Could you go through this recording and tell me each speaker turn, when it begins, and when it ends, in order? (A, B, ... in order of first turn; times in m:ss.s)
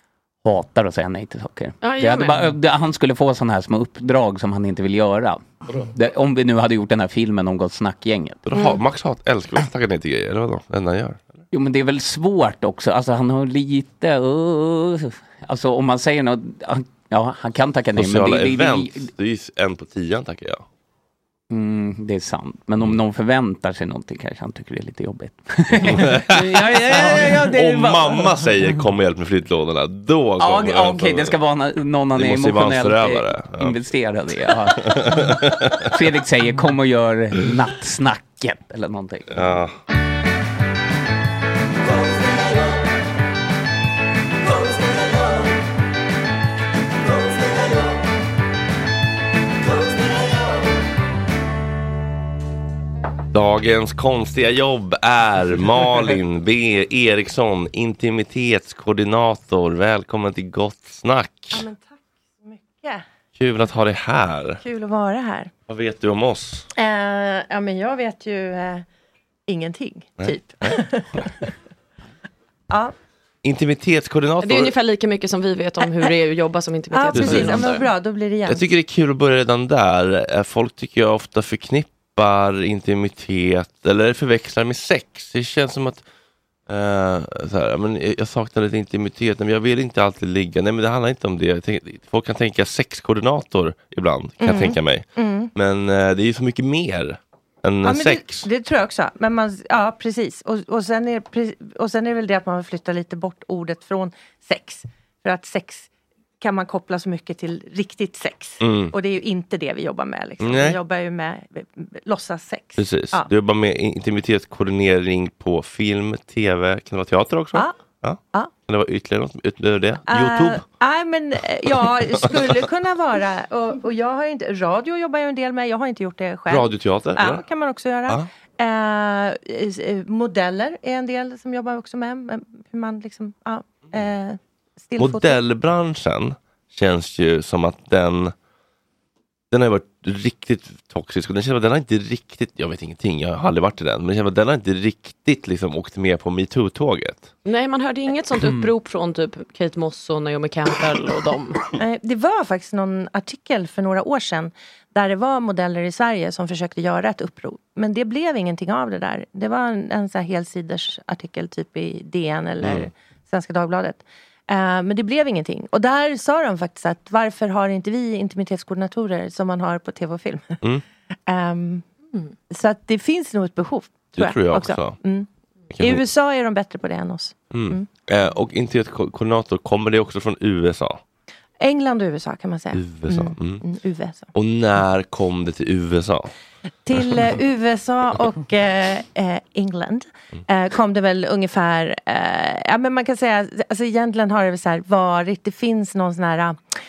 0:00.4-0:08.4 A
0:01.8-0:02.5 B
0:08.5-0:11.2 C
0:08.5-0:08.8 B
0:11.5-0:19.1 A
0:18.0-0:20.6 C
0:21.5-0:28.4 A
0:25.8-0:31.4 C
0:30.4-0:39.4 A
0:32.2-0:33.8 C
0:34.8-0:35.8 C
0:39.3-0:39.7 C
0:53.3-1:01.7 C
1:01.5-1:03.0 D
1:03.4-1:04.6 C
1:04.6-1:05.5 D
1:05.7-1:06.7 C
1:06.8-1:08.8 D
1:09.5-1:11.3 D
1:10.2-1:10.8 C
1:13.4-1:14.7 C
1:14.4-1:17.9 B
1:15.8-1:16.1 D
1:16.9-1:18.6 D
1:17.1-1:17.8 C
1:18.5-1:26.0 C
1:26.7-1:38.5 C
1:34.4-1:35.5 D
1:37.8-1:45.9 D
1:46.4-1:53.3 D
1:48.6-1:48.9 C
1:50.4-1:50.8 C
1:52.8-2:00.6 C
1:57.5-1:57.8 D
2:00.1-2:15.4 D
2:06.5-2:07.4 C
2:15.0-2:18.3 C
2:19.5-2:27.3 C
2:27.4-2:31.6 B
2:31.8-2:50.6 D
2:42.6-2:42.9 C
2:51.3-2:51.8 D
2:52.5-2:55.3 D
2:54.2-2:55.0 C
2:55.7-2:56.0 C
2:55.8-2:57.9 D
2:57.5-3:01.0 C
3:01.6-3:04.3 D
3:02.7-3:03.6 C
3:04.3-3:06.3 C
3:06.8-3:16.6 D